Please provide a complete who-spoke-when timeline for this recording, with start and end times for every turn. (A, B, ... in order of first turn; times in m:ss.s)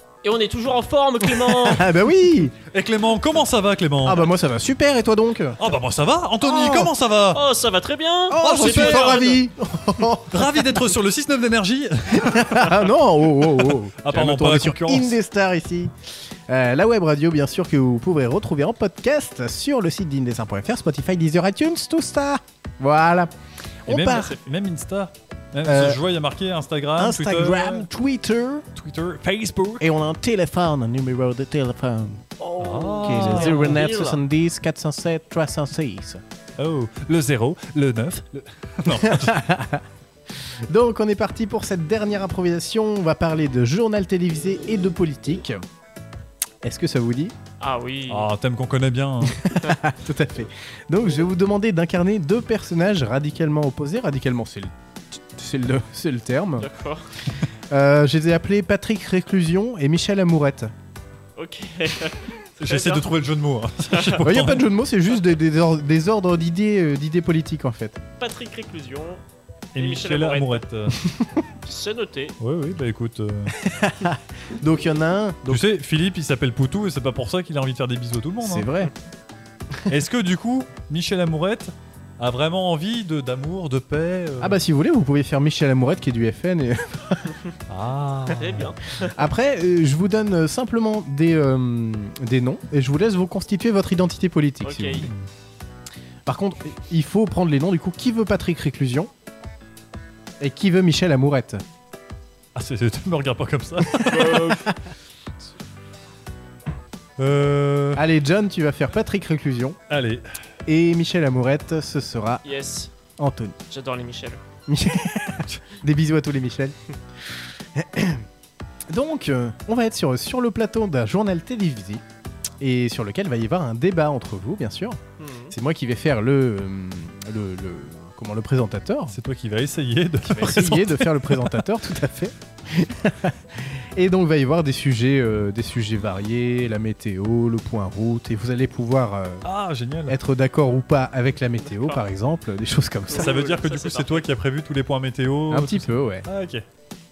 0:00.2-0:01.8 A
0:01.4-0:02.5 B
0:02.7-0:04.2 C
0:04.0-0:05.6 B
0:05.6-0:07.4 C
0:06.4-0:06.9 B
0:07.3-0:09.4 A
0:08.3-0:10.8 B
0:08.4-0:09.3 C
0:10.3-0:12.8 C
0:12.1-0:15.9 B
0:14.0-0:15.1 C
0:16.5-0:23.3 B
0:23.8-0:24.3 B
0:23.9-0:27.8 C
0:24.0-0:24.4 A
0:25.6-0:26.0 B
0:27.0-0:28.6 B
0:28.7-0:29.8 C
0:29.8-0:32.2 B
0:32.4-0:34.2 A
0:32.6-0:33.8 C
0:33.0-0:36.2 B
0:36.6-0:39.5 C
0:38.9-0:39.8 B
0:40.7-0:45.6 B
0:46.6-0:47.3 B
0:47.6-0:48.3 A
0:48.1-0:49.4 C
0:49.6-0:56.7 B
0:56.6-0:57.1 A
0:57.7-1:00.7 B
1:01.4-1:03.0 A
1:02.6-1:04.6 C
1:03.8-1:04.2 A
1:04.2-1:08.0 B
1:08.2-1:09.2 A
1:09.7-1:11.0 C
1:09.8-1:10.6 A
1:11.6-1:12.4 A
1:12.4-1:13.6 C
1:13.6-1:15.6 B
1:15.5-1:18.7 C
1:18.4-1:18.9 B
1:19.9-1:24.6 C
1:24.4-1:27.2 B
1:27.7-1:28.7 C
1:28.3-1:29.2 A
1:29.1-1:35.1 B
1:34.6-1:35.1 A
1:35.0-1:35.3 C
1:36.2-1:39.1 B
1:40.4-1:41.6 B
1:42.5-1:44.6 C
1:44.1-1:44.7 A
1:47.2-1:48.0 C
1:47.9-1:49.8 B
1:49.9-1:50.2 C
1:50.6-1:52.4 B
1:52.4-1:52.9 A
1:53.2-1:53.6 B
1:53.7-1:54.4 A
1:54.7-1:56.7 B
1:57.3-1:58.2 B
1:58.9-2:02.0 B
2:02.6-2:09.2 B
2:05.2-2:05.5 A
2:09.1-2:11.6 C
2:10.2-2:19.4 B
2:19.4-2:20.2 C
2:20.1-2:23.4 B
2:21.7-2:22.0 A
2:23.1-2:24.3 A
2:23.1-2:26.6 C
2:25.5-2:26.2 B